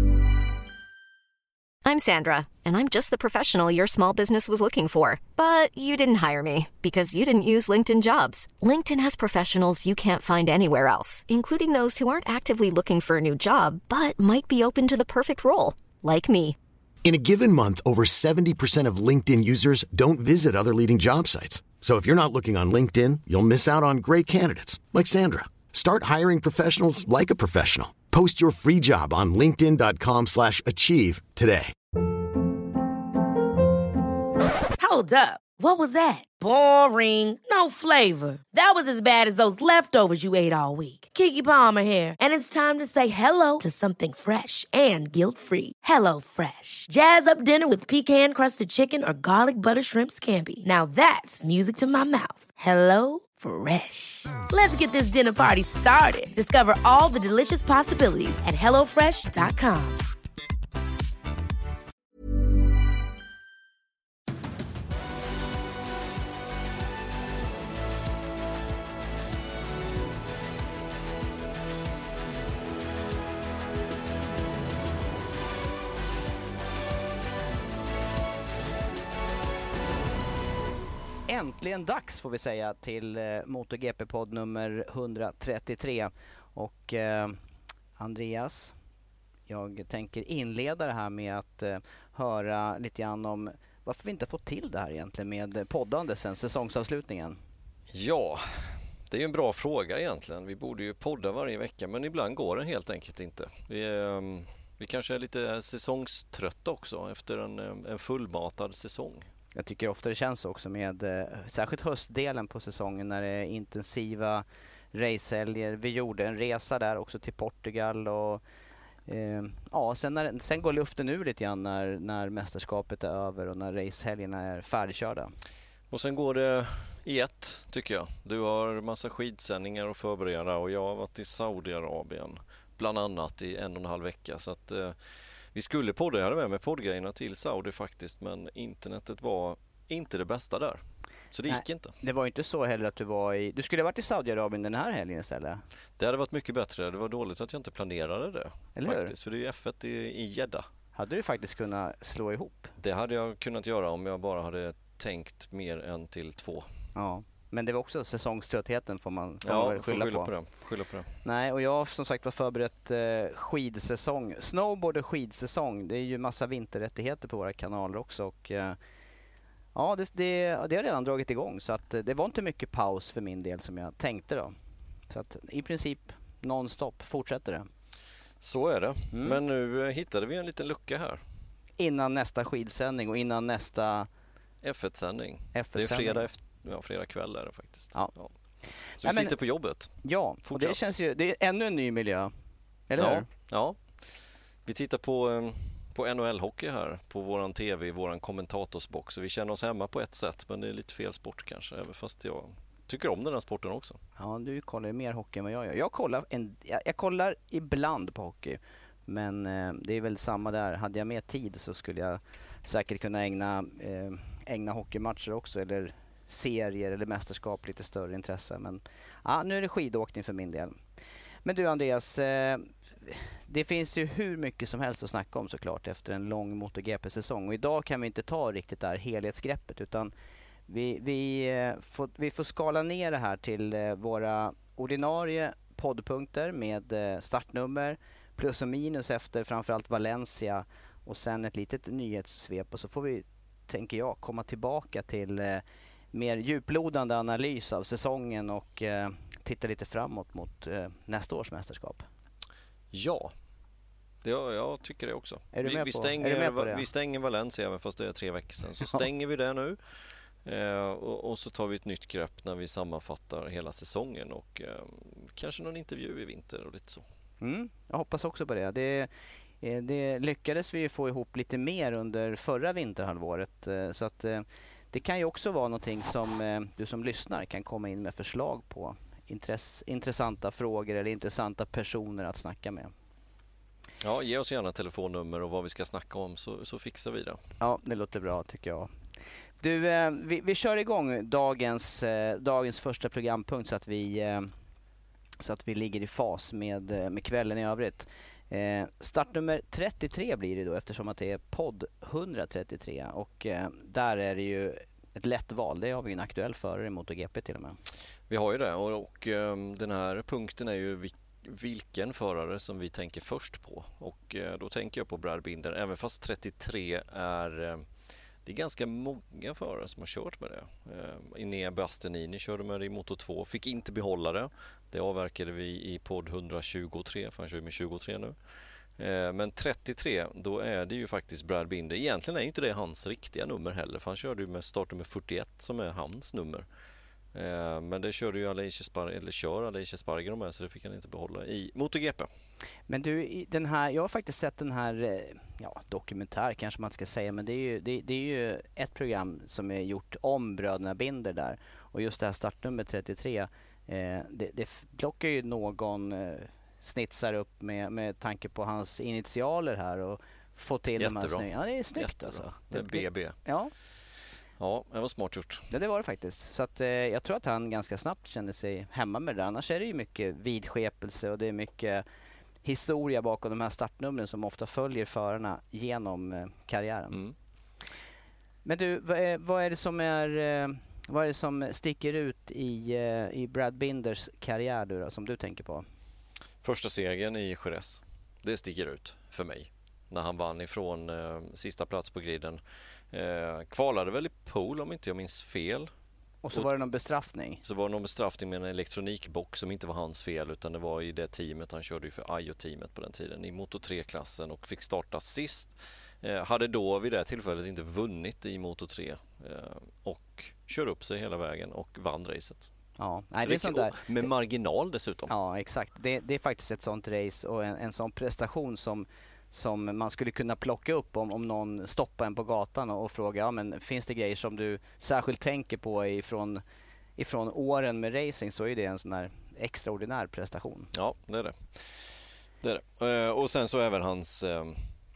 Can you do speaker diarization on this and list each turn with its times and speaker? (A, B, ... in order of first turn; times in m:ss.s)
0:01.8-0:16.6 A
0:17.0-0:31.7 B
0:34.8-1:00.0 C
1:21.3-1:27.4 D
1:28.0-1:28.7 D
1:29.5-1:37.4 D
1:37.9-1:49.3 E
1:49.6-1:58.4 D
1:59.1-2:05.3 D
2:05.9-2:22.0 E
2:21.5-2:25.6 D
2:26.0-2:30.7 E
2:28.8-2:29.1 D
2:30.9-2:32.7 D
2:32.8-2:36.7 E
2:37.0-2:40.3 D
2:39.4-2:41.1 E
2:41.2-2:48.8 D
2:49.8-2:54.6 D
2:55.1-2:57.7 D
2:58.4-3:01.2 E
2:59.1-2:59.4 D
3:01.8-3:04.1 D
3:04.6-3:08.3 E
3:05.5-3:06.3 D
3:08.9-3:09.3 D
3:09.0-3:10.9 E
3:10.0-3:12.3 D
3:12.9-3:13.3 D
3:13.0-3:24.0 E
3:24.2-3:40.8 D
3:41.4-3:50.1 D
3:50.7-4:12.0 D
4:12.9-4:13.3 E
4:14.2-4:19.8 E
4:15.5-4:16.8 D
4:20.4-4:27.0 E
4:27.4-4:42.9 D
4:44.0-4:47.4 E
4:47.6-4:48.9 D
4:49.6-4:54.5 D
4:55.4-5:07.8 D
5:08.3-5:17.9 E
5:18.4-5:28.4 E
5:29.0-5:36.7 E
5:37.3-5:42.3 E
5:42.9-6:03.7 D
6:01.0-6:03.4 E
6:04.6-6:05.7 E
6:05.7-6:12.0 D
6:12.6-6:17.2 D
6:17.1-6:17.4 E
6:18.6-6:25.8 D
6:26.6-6:35.9 E
6:36.4-6:37.6 D
6:37.6-6:52.7 E
6:53.0-6:54.3 D
6:53.4-6:55.3 E
6:55.3-7:06.6 D
7:07.2-7:10.9 D
7:10.9-7:14.9 E